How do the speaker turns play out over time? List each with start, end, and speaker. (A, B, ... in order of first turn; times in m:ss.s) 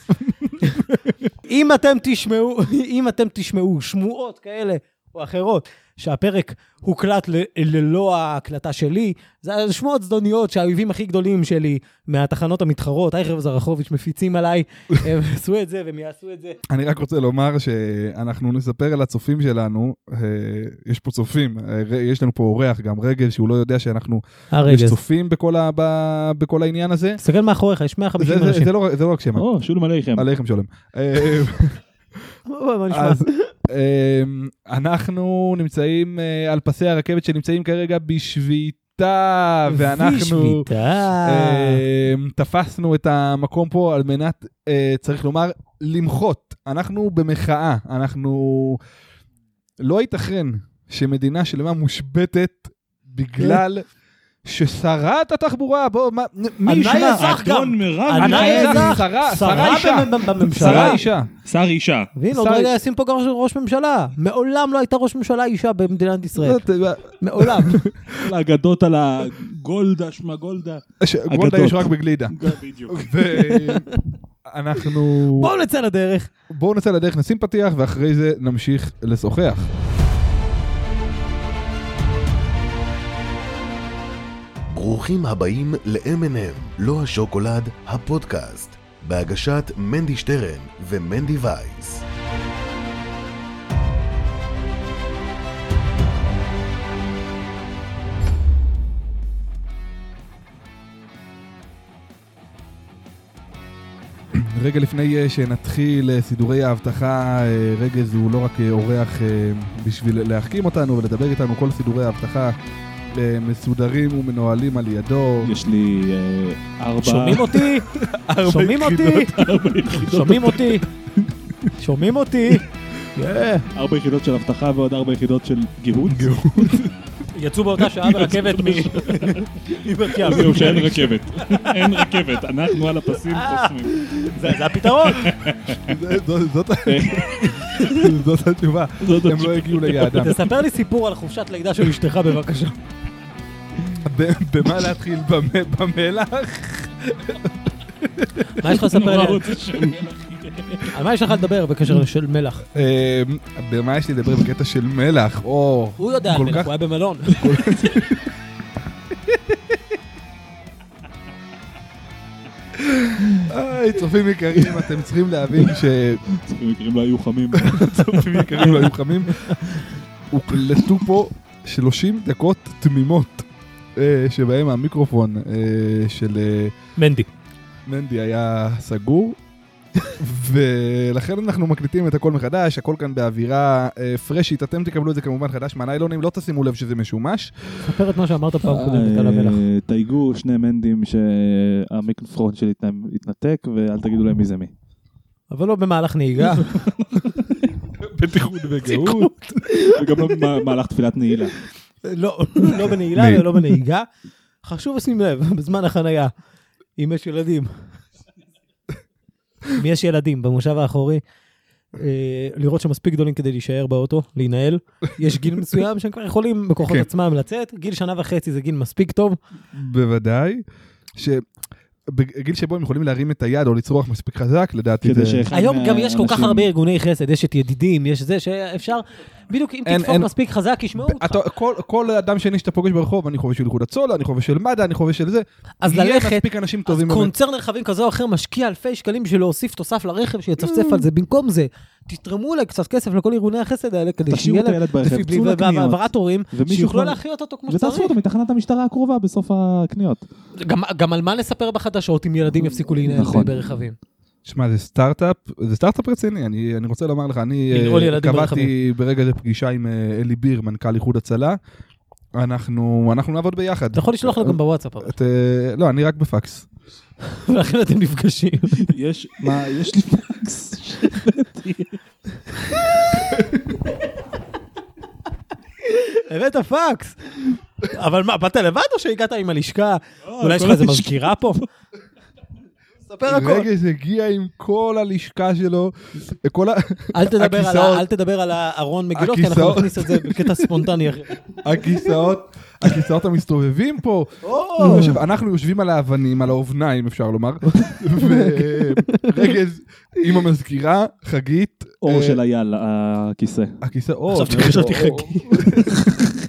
0:00.3-0:00.8 A
0:00.6-0:16.6 B
0:16.7-0:27.2 A
0:24.5-0:25.0 B
0:27.2-0:28.7 B
0:28.2-0:29.4 A
0:29.4-0:30.3 C
0:30.2-0:31.8 A
0:32.5-0:33.5 B
0:32.9-0:40.7 A
0:39.7-0:41.8 B
0:41.2-0:48.8 A
0:49.8-0:53.8 A
0:54.4-0:57.3 A
0:56.6-1:01.0 B
0:56.8-0:59.0 C
0:58.2-1:01.3 A
1:00.5-1:02.1 C
1:02.2-1:06.6 B
1:02.3-1:02.8 A
1:06.4-1:08.3 A
1:07.2-1:07.8 B
1:08.2-1:13.1 C
1:11.0-1:12.4 A
1:12.9-1:13.9 A
1:13.4-1:14.0 B
1:14.5-1:15.5 A
1:15.2-1:16.3 B
1:16.5-1:19.7 A
1:24.7-1:32.0 D
1:44.3-1:52.6 A
1:53.1-1:55.5 A
1:55.4-1:57.6 C
1:57.0-1:59.4 B
1:57.9-1:59.5 A
1:59.2-2:00.8 C
2:00.0-2:00.9 B
2:01.8-2:03.7 B
2:03.7-2:06.8 C
2:06.1-2:07.0 A
2:07.3-2:12.4 B
2:08.0-2:09.5 C
2:10.2-2:16.0 C
2:10.3-2:10.9 A
2:13.3-2:15.3 B
2:15.8-2:20.4 A
2:16.9-2:17.7 C
2:19.0-2:20.3 C
2:20.1-2:22.8 B
2:24.0-2:27.5 A
2:28.2-2:28.4 A
2:28.6-2:29.6 B
2:28.7-2:31.0 C
2:30.9-2:32.6 B
2:32.7-2:36.7 A
2:36.0-2:37.4 B
2:37.3-2:38.3 A
2:42.8-2:46.2 A
2:46.3-2:48.9 C
2:47.5-2:56.8 A
2:57.0-2:57.3 B
2:57.9-2:59.4 A
3:00.2-3:07.5 A
3:07.8-3:09.6 B
3:08.6-3:14.7 C
3:15.5-3:16.8 B
3:16.7-3:17.5 C
3:18.0-3:19.5 A
3:18.8-3:20.6 B
3:19.9-3:21.6 C
3:22.0-3:24.1 B
3:23.1-3:23.7 A
3:24.6-3:26.3 B
3:27.0-3:27.9 B
3:29.8-3:31.2 B
3:32.0-3:39.4 B
3:39.7-3:40.6 A
3:41.2-3:41.4 A
3:42.1-3:45.5 A
3:45.0-3:46.7 C
3:45.5-3:51.4 B
3:49.8-3:50.3 A
3:51.0-3:57.3 A
3:55.8-4:08.1 B
4:04.3-4:10.2 C
4:10.6-4:14.0 B
4:13.0-4:13.6 C
4:14.4-4:21.6 A
4:17.7-4:18.7 B
4:22.4-4:26.7 A
4:23.9-4:25.1 B
4:27.3-4:28.8 B
4:28.8-4:32.0 C
4:32.7-4:33.4 B
4:33.4-4:33.6 A
4:35.8-4:41.6 B
4:40.3-4:41.5 C
4:43.0-4:43.7 B
4:43.3-4:48.1 A
4:47.1-4:52.0 B
4:49.1-4:50.8 A
4:51.6-5:02.4 A
4:54.4-4:55.2 B
4:57.8-4:59.3 B
5:02.0-5:03.8 C
5:03.8-5:06.0 A
5:04.3-5:06.0 B